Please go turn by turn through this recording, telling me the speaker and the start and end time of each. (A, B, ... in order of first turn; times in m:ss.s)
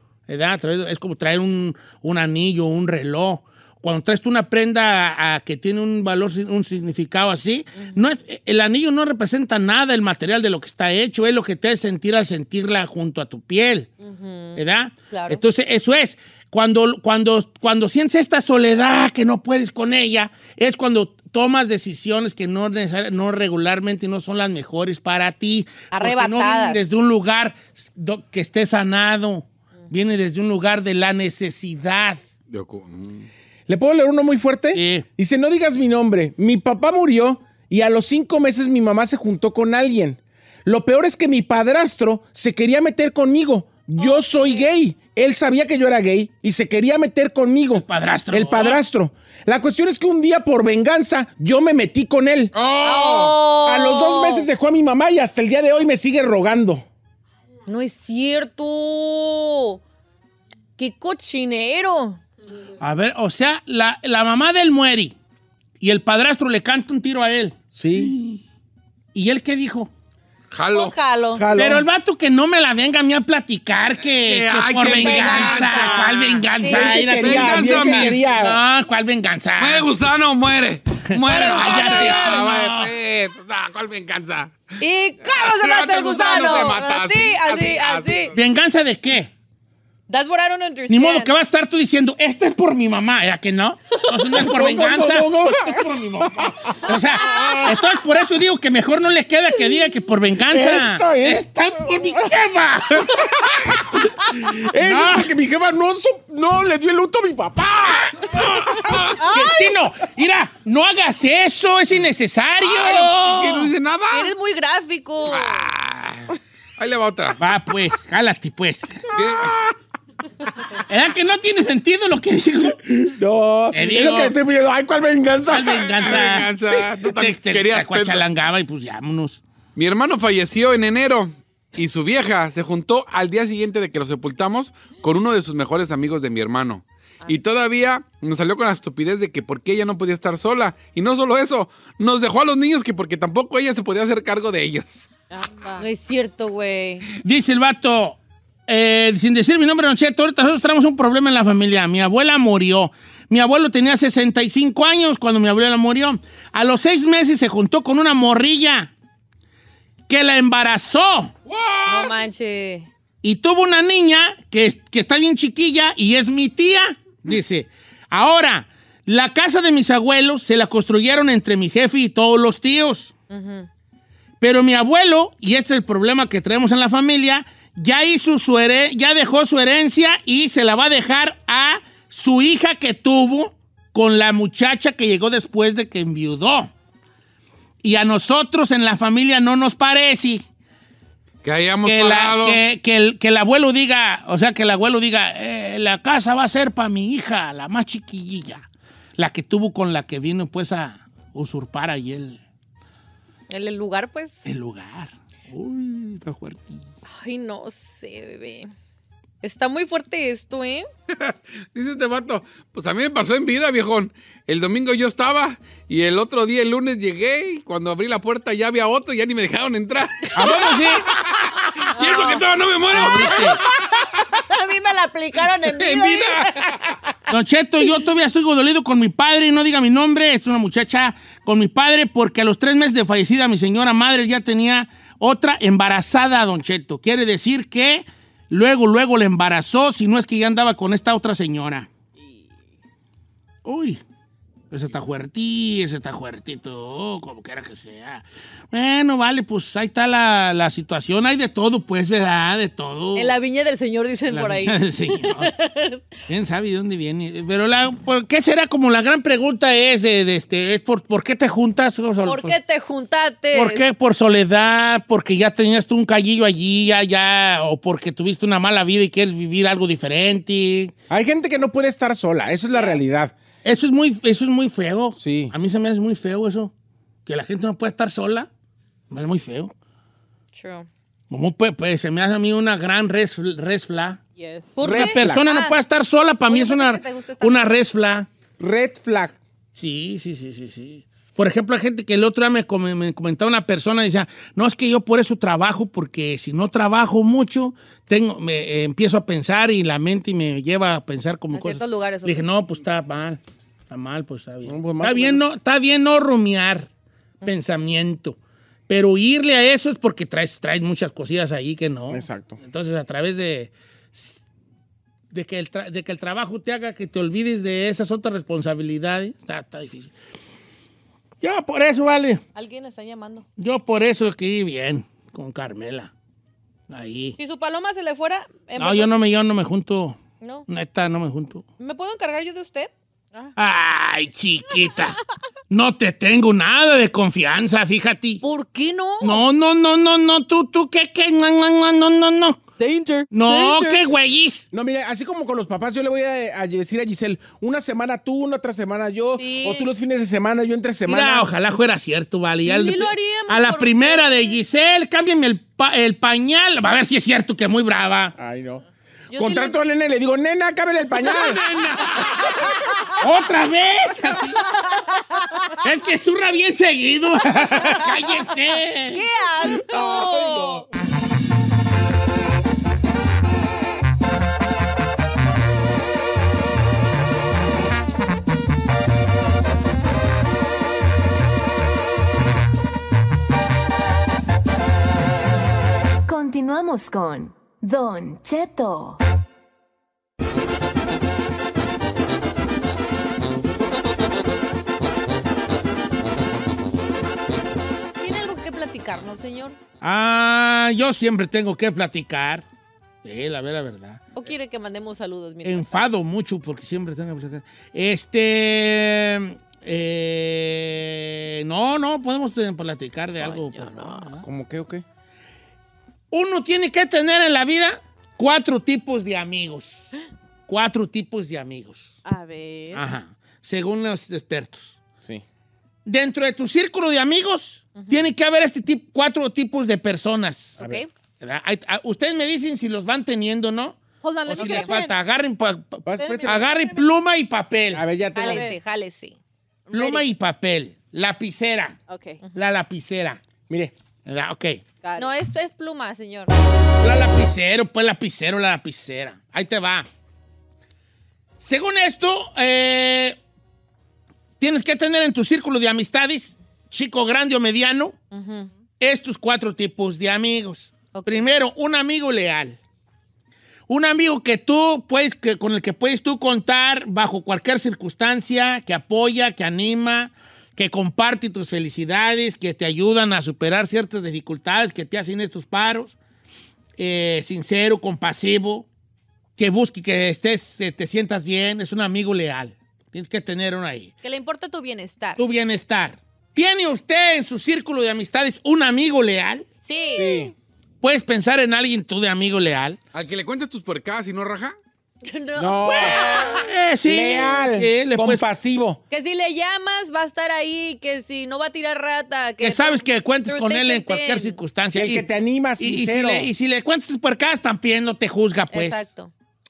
0:00.3-0:13.9 A
0:07.8-0:08.0 B
0:14.0-0:14.6 B
0:14.6-0:32.2 A
0:15.1-0:15.4 B
0:25.9-0:26.8 B
0:32.5-0:33.3 C
0:33.7-0:52.5 D
0:34.7-0:35.0 A
0:44.0-0:44.7 B
0:47.7-0:48.8 A
0:52.5-0:53.4 C
0:52.8-0:54.5 B
0:53.6-0:56.8 D
0:57.7-0:59.8 B
1:00.8-1:02.2 B
1:02.8-1:05.1 A
1:05.8-1:08.4 A
1:07.7-1:08.1 D
1:09.1-1:09.9 A
1:10.5-1:11.0 C
1:10.7-1:11.4 B
1:11.4-1:11.9 D
1:11.6-1:19.9 A
1:14.2-1:16.5 C
1:14.8-1:17.1 B
1:16.6-1:18.6 D
1:17.2-1:18.2 C
1:19.6-1:24.6 C
1:21.1-1:22.9 A
1:21.3-1:22.2 B
1:24.8-1:28.3 B
1:25.4-1:28.3 C
1:28.4-1:29.3 A
1:30.1-1:31.3 B
1:30.9-1:43.4 A
1:34.4-1:37.8 D
1:40.5-1:42.2 D
1:43.7-1:48.4 D
1:44.8-1:45.3 A
1:47.9-1:53.7 A
1:49.2-1:49.6 E
1:52.6-1:54.3 C
1:54.1-1:55.7 B
1:55.3-1:57.4 C
1:57.4-1:59.1 A
1:59.1-1:59.7 C
2:00.9-2:03.1 A
2:03.2-2:05.7 D
2:03.7-2:04.3 A
2:05.5-2:09.4 A
2:05.8-2:08.2 C
2:09.8-2:25.1 C
2:25.3-2:25.8 E
2:25.8-2:27.0 B
2:27.2-2:28.2 A
2:28.7-2:38.9 A
2:40.1-2:41.3 A
2:41.5-2:42.1 C
2:41.9-2:42.9 B
2:43.2-2:53.1 A
2:53.3-2:53.7 B
2:54.4-3:06.7 A
3:07.8-3:10.4 A
3:11.4-3:12.6 C
3:11.8-3:18.6 A
3:19.2-3:22.4 A
3:23.5-3:24.4 B
3:24.4-3:26.8 A
3:27.1-3:28.7 B
3:29.4-3:30.9 B
3:31.2-3:43.9 C
3:40.4-3:41.1 A
3:42.0-3:42.4 E
3:42.9-3:43.6 A
3:43.1-3:46.9 B
3:45.7-3:46.9 C
3:47.3-4:01.9 A
4:02.2-4:02.6 E
4:03.6-4:04.0 A
4:04.7-4:13.3 A
4:13.1-4:16.0 B
4:14.3-4:15.5 A
4:16.3-4:22.6 A
4:22.3-4:23.8 B
4:23.5-4:30.9 A
4:31.1-4:33.3 D
4:32.7-4:33.0 B
4:33.6-4:36.7 A
4:35.2-4:35.5 D
4:37.3-4:38.5 A
4:39.1-4:39.7 A
4:40.5-4:40.9 B
4:41.3-4:44.2 A
4:44.4-4:44.8 E
4:44.8-4:45.8 B
4:44.8-4:45.4 D
4:44.8-4:48.3 A
4:46.5-4:47.7 B
4:48.6-4:49.4 D
4:49.8-5:06.9 A
5:01.5-5:02.4 B
5:04.7-5:05.4 D
5:07.4-5:08.4 A
5:08.9-5:14.4 A
5:12.1-5:12.6 D
5:15.3-5:20.1 A
5:21.4-5:22.4 A
5:22.6-5:23.4 B
5:23.6-5:26.1 A
5:26.9-5:27.4 A
5:27.4-5:29.1 B
5:28.8-5:31.6 A
5:30.4-5:30.7 B
5:31.8-5:32.9 B
5:33.6-5:35.2 A
5:35.7-5:38.4 A
5:38.4-5:39.4 B
5:39.2-5:42.6 A
5:42.8-5:44.0 E
5:43.3-5:44.6 A
5:44.7-5:51.5 D
5:49.4-5:49.9 B
5:51.1-5:58.4 A
5:52.6-5:54.6 B
5:58.4-5:58.8 D
5:59.3-5:59.8 B
5:59.4-6:01.6 D
6:01.3-6:02.6 C
6:03.2-6:04.7 A
6:05.8-6:09.2 A
6:09.1-6:10.8 B
6:09.7-6:10.7 D
6:26.3-6:29.2 F
6:38.2-6:39.8 B
6:40.0-6:42.6 A
6:43.2-6:44.2 A
6:44.4-6:46.0 B
6:45.6-6:54.4 A
6:53.8-6:54.3 E
6:54.4-6:55.0 D
6:56.3-7:00.1 A
7:00.7-7:02.1 A
7:02.2-7:03.0 E
7:02.9-7:05.0 A
7:06.1-7:10.8 A
7:10.8-7:11.1 B
7:11.4-7:18.0 A
7:14.2-7:15.2 E
7:14.5-7:14.8 B
7:16.1-7:16.7 D
7:16.2-7:17.0 E
7:17.9-7:18.7 D
7:18.4-7:19.4 B
7:18.5-7:18.8 E
7:19.9-7:20.2 E
7:19.9-7:22.0 A
7:22.1-7:22.4 E
7:22.5-7:23.4 A
7:24.3-7:24.8 A
7:25.0-7:25.3 E
7:25.2-7:26.5 B
7:27.0-7:30.1 A
7:31.6-7:33.4 A
7:34.6-7:38.1 A
7:38.3-7:38.7 B
7:39.0-7:42.8 A
7:41.1-7:41.4 B
7:43.9-7:56.2 A
7:57.0-7:58.9 A
7:59.6-8:04.1 A
8:04.2-8:05.4 B
8:05.4-8:09.6 A
8:09.8-8:10.3 B
8:10.2-8:10.5 D
8:11.0-8:13.0 A
8:13.1-8:14.7 C
8:15.2-8:16.6 B
8:15.6-8:19.0 D
8:16.0-8:18.4 A
8:19.1-8:24.6 B
8:22.6-8:25.3 A
8:24.9-8:26.5 D
8:25.8-8:29.1 A
8:28.7-8:29.3 B